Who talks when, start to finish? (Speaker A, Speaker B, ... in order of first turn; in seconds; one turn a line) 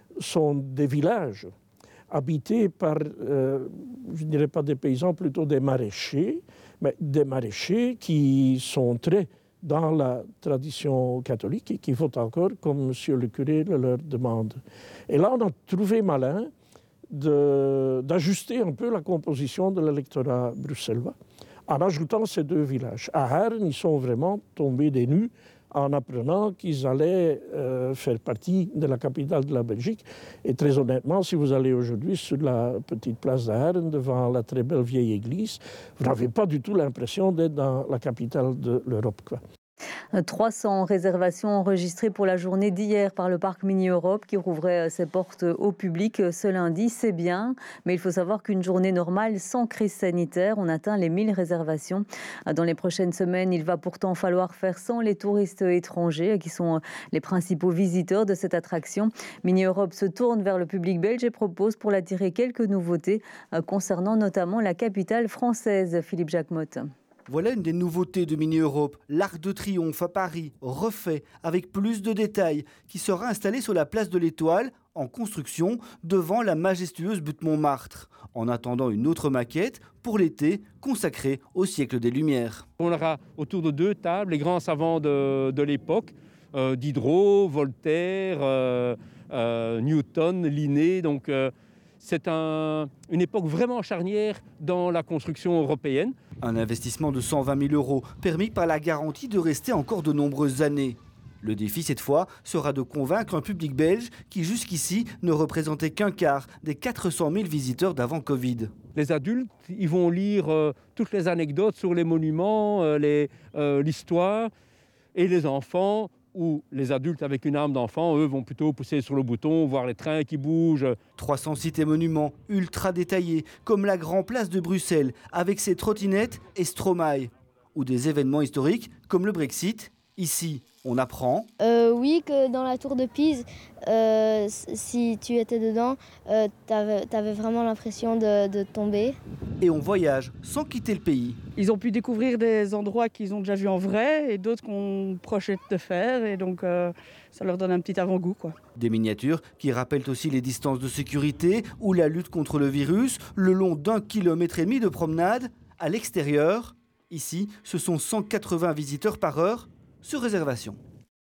Speaker A: 0.2-1.5
Speaker A: 2.1-16.5
Speaker A: 17.1-21.1
Speaker A: 21.7-39.4
Speaker B: 40.1-66.9
Speaker C: 67.3-82.6
Speaker D: 82.8-91.5
Speaker D: 92.0-96.1
Speaker C: 96.4-108.7
Speaker D: 108.9-114.5
Speaker D: 115.1-121.0
Speaker C: 121.2-131.5
Speaker E: 131.6-139.2
Speaker C: 139.6-141.4
Speaker F: 141.6-148.5
Speaker C: 148.8-160.8